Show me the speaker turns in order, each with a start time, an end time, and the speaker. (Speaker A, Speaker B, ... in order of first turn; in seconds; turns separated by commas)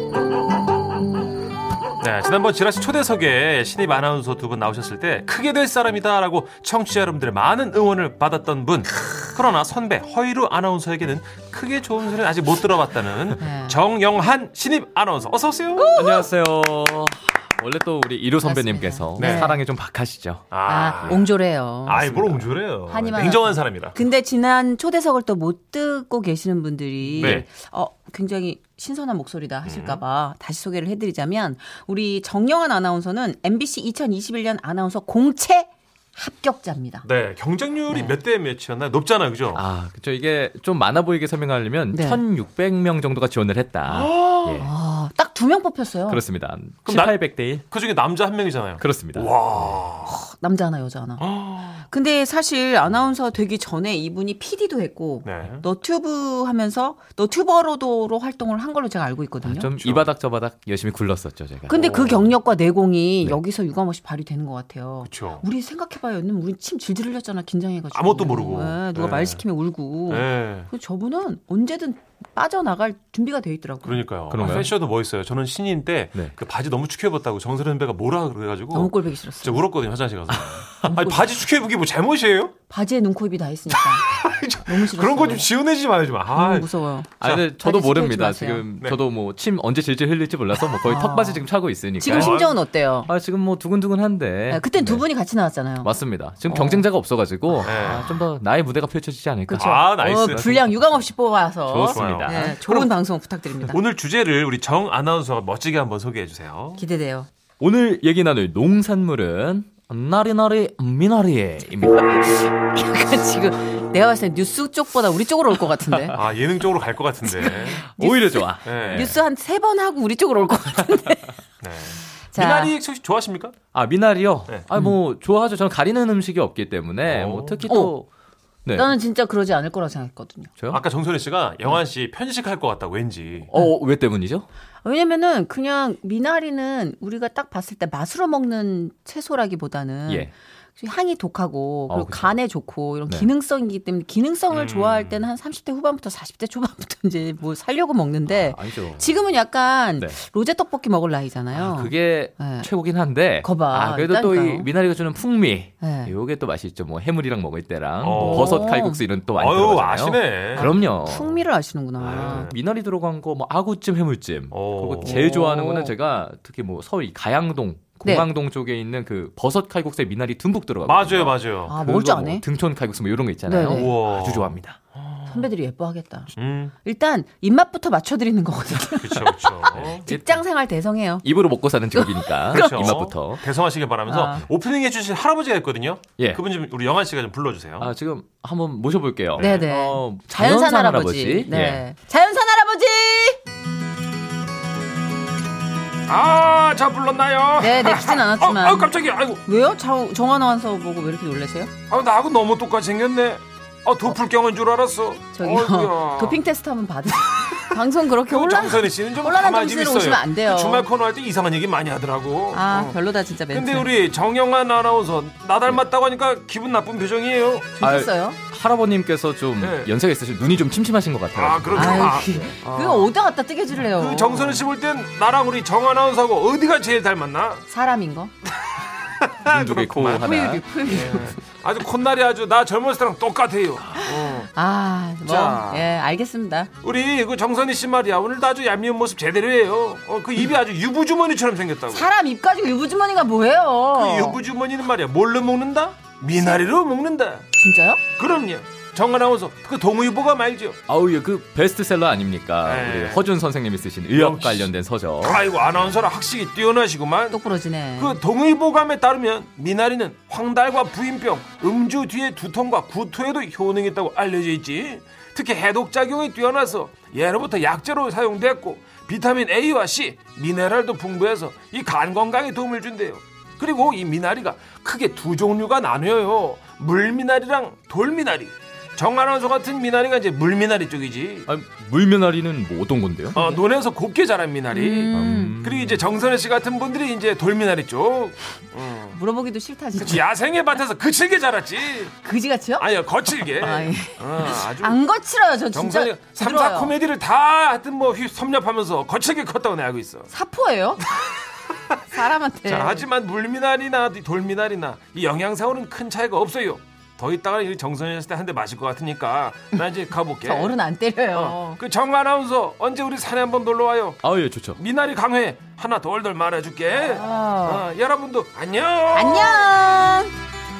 Speaker A: 2.0-16.0, Speaker B: 13.4-13.8, Speaker B: 15.8-16.3, Speaker C: 15.9-20.5, Speaker B: 18.4-19.6, Speaker A: 19.2-19.5, Speaker A: 20.5-21.2, Speaker B: 20.6-37.0, Speaker A: 21.8-24.0, Speaker A: 27.2-27.4, Speaker C: 27.2-27.4, Speaker A: 29.6-30.0, Speaker A: 37.0-39.6, Speaker B: 37.9-38.1, Speaker C: 39.5-44.7, Speaker B: 41.9-42.2, Speaker A: 43.9-44.6, Speaker B: 44.6-46.2, Speaker C: 46.1-47.6, Speaker A: 46.9-50.2, Speaker C: 48.8-49.8, Speaker B: 50.0-51.2, Speaker A: 51.2-51.8, Speaker B: 51.9-59.7, Speaker A: 55.2-55.6, Speaker C: 59.4-62.0, Speaker A: 59.8-60.0, Speaker B: 61.7-74.6, Speaker A: 61.8-62.2, Speaker A: 65.0-65.4, Speaker A: 67.9-69.4, Speaker A: 70.1-70.7, Speaker A: 73.8-82.5, Speaker C: 74.3-74.7, Speaker B: 78.7-79.6, Speaker B: 80.8-81.3, Speaker B: 82.7-84.1, Speaker A: 83.8-87.4, Speaker B: 84.6-85.5, Speaker B: 86.3-88.7, Speaker C: 87.2-92.5, Speaker B: 90.8-91.4, Speaker B: 92.0-93.1, Speaker A: 92.0-92.5, Speaker C: 93.0-95.0, Speaker B: 94.5-95.9, Speaker C: 95.8-100.9, Speaker B: 96.5-96.8, Speaker A: 97.6-98.2, Speaker B: 99.5-103.8, Speaker A: 99.5-100.5, Speaker C: 101.7-102.5, Speaker A: 101.9-102.9, Speaker A: 103.6-106.8, Speaker B: 106.8-107.3, Speaker C: 107.6-112.3, Speaker B: 112.0-116.2, Speaker A: 116.1-117.8, Speaker B: 117.3-121.4, Speaker C: 117.8-119.2, Speaker A: 118.6-119.1, Speaker A: 121.6-123.6, Speaker B: 122.3-122.7, Speaker C: 123.7-128.1, Speaker A: 127.0-127.7, Speaker B: 127.7-127.9, Speaker C: 128.6-128.9, Speaker B: 128.7-130.5, Speaker C: 130.6-130.8, Speaker A: 130.7-133.5, Speaker C: 133.5-134.5, Speaker B: 134.8-152.7, Speaker C: 140.1-140.3, Speaker C: 141.9-142.3, Speaker A: 144.5-145.2, Speaker C: 148.3-149.1, Speaker C: 151.5-161.3, Speaker B: 153.4-154.7, Speaker B: 155.8-156.1, Speaker A: 158.0-158.7, Speaker B: 158.1-159.0, Speaker A: 159.3-160.7, Speaker B: 160.6-162.5, Speaker A: 162.0-162.5, Speaker C: 162.0-174.8, Speaker A: 164.5-165.2, Speaker B: 165.0-165.9, Speaker B: 168.0-168.3, Speaker A: 170.8-171.7, Speaker B: 171.7-172.4, Speaker B: 173.4-173.9, Speaker A: 173.7-175.4, Speaker B: 175.3-176.3, Speaker A: 176.3-176.7, Speaker B: 176.8-181.2, Speaker A: 179.0-180.0, Speaker C: 179.7-180.4, Speaker C: 181.2-183.4, Speaker B: 181.9-182.9, Speaker A: 182.5-187.9, Speaker B: 184.1-184.4, Speaker C: 187.8-191.8, Speaker A: 189.4-189.6, Speaker B: 189.4-193.4, Speaker A: 196.1-199.4, Speaker B: 197.6-198.9, Speaker B: 199.4-201.7, Speaker A: 201.9-206.4, Speaker B: 205.3-210.8, Speaker A: 208.3-213.0, Speaker B: 212.5-213.9, Speaker A: 213.5-217.7, Speaker B: 217.8-218.4, Speaker C: 217.8-222.2, Speaker A: 219.6-219.9, Speaker A: 221.3-223.1, Speaker B: 221.7-224.6, Speaker A: 223.8-227.6, Speaker B: 227.7-228.3, Speaker A: 229.2-230.3, Speaker C: 229.4-230.6, Speaker B: 230.2-231.4, Speaker A: 230.8-234.5, Speaker B: 234.0-236.7, Speaker A: 235.2-235.9, Speaker A: 236.8-242.1, Speaker B: 241.9-244.4, Speaker A: 243.9-247.4, Speaker B: 247.6-248.0, Speaker A: 248.2-250.8, Speaker C: 250.9-255.4, Speaker A: 252.6-253.2, Speaker A: 254.1-254.7, Speaker A: 255.2-257.4, Speaker B: 257.3-258.2, Speaker A: 258.0-281.5, Speaker C: 281.5-283.4, Speaker B: 283.3-283.6, Speaker A: 283.3-289.2, Speaker B: 284.7-285.6, Speaker C: 285.1-286.0, Speaker B: 289.1-290.2, Speaker A: 289.9-292.1, Speaker B: 292.2-292.9, Speaker A: 292.8-295.0, Speaker B: 293.6-296.9, Speaker A: 295.7-300.3, Speaker B: 300.3-301.1, Speaker B: 302.1-303.1, Speaker A: 302.6-310.8, Speaker B: 310.4-311.8, Speaker A: 311.3-314.2, Speaker C: 314.2-314.8, Speaker A: 314.8-319.7, Speaker B: 317.0-317.8, Speaker B: 319.1-320.3